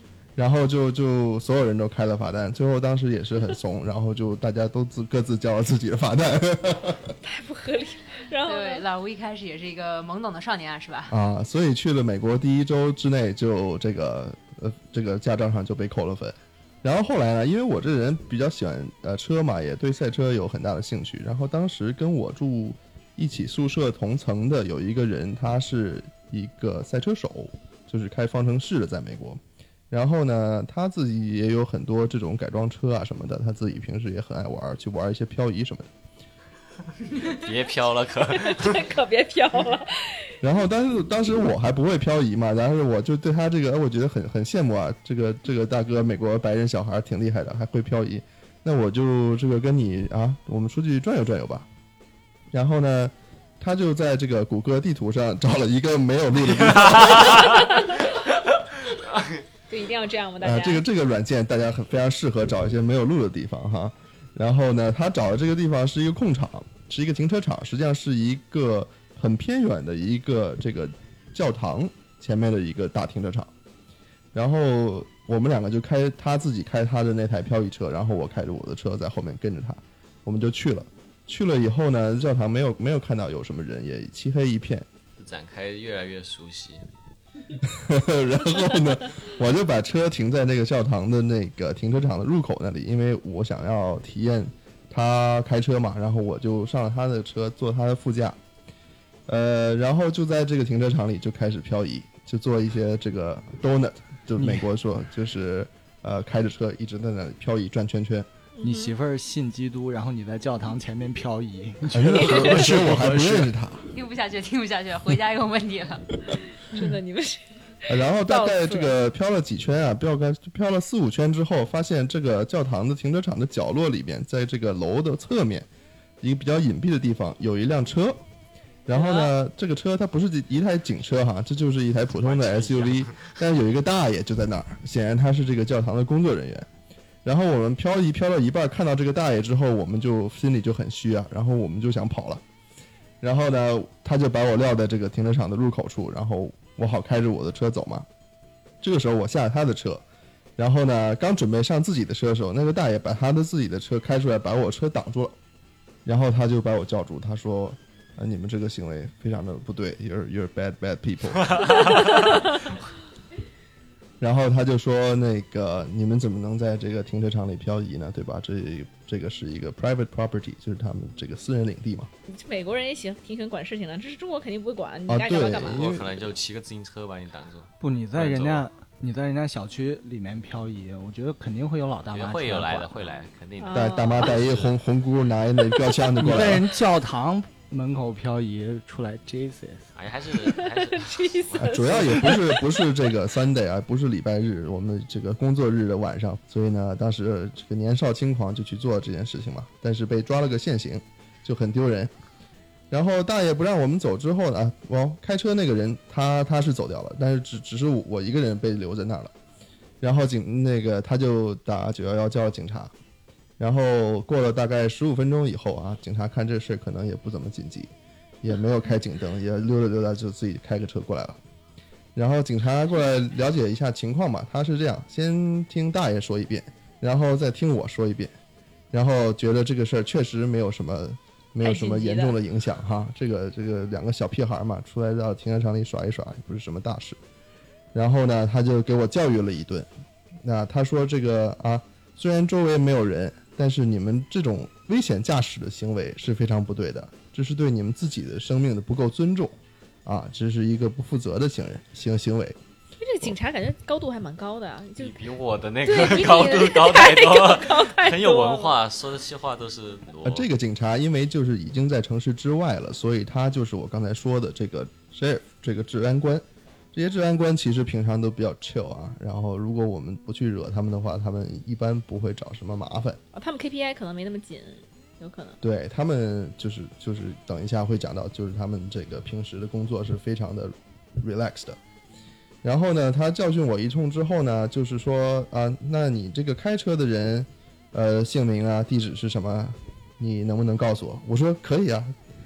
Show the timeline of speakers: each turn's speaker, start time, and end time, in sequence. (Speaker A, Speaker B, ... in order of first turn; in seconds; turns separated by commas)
Speaker A: 0.4-7.2, Speaker B: 7.2-8.8, Speaker C: 8.4-11.1, Speaker A: 11.1-35.9, Speaker D: 37.2-38.8, Speaker B: 38.3-40.4, Speaker A: 40.4-51.7, Speaker A: 52.5-57.6, Speaker B: 57.4-58.1, Speaker B: 59.7-60.8, Speaker A: 60.4-73.5, Speaker A: 74.3-84.9, Speaker D: 85.2-86.8, Speaker A: 87.6-98.4, Speaker A: 99.3-108.3, Speaker E: 104.4-104.7, Speaker B: 108.6-108.9, Speaker E: 108.6-113.5, Speaker A: 111.9-113.9, Speaker C: 113.9-116.1, Speaker B: 116.6-118.9, Speaker A: 117.9-125.7, Speaker A: 126.2-128.2, Speaker A: 128.9-136.7, Speaker B: 128.9-129.3, Speaker D: 132.2-133.3, Speaker A: 137.2-142.4, Speaker A: 143.2-148.1, Speaker A: 148.8-150.0, Speaker A: 150.6-155.4, Speaker A: 156.1-162.0, Speaker A: 164.2-172.1, Speaker B: 172.3-175.9, Speaker A: 175.1-176.2, Speaker D: 175.6-178.7, Speaker E: 177.8-183.2, Speaker D: 182.1-184.8, Speaker B: 183.6-184.4, Speaker A: 183.7-186.7, Speaker B: 185.7-186.1, Speaker E: 186.2-189.9, Speaker D: 190.0-192.2, Speaker B: 190.5-192.9, Speaker A: 191.6-202.1, Speaker A: 202.9-209.3, Speaker A: 210.0-212.9, Speaker A: 213.6-217.9, Speaker A: 218.4-221.4, Speaker A: 222.2-228.3, Speaker A: 228.9-237.2, Speaker B: 231.6-232.4, Speaker A: 237.9-239.9, Speaker A: 240.4-252.6, Speaker B: 253.0-255.2, Speaker D: 255.0-260.5, Speaker B: 255.8-258.8, Speaker A: 260.2-273.2, Speaker B: 273.3-275.6, Speaker A: 275.6-281.8, Speaker A: 282.6-292.1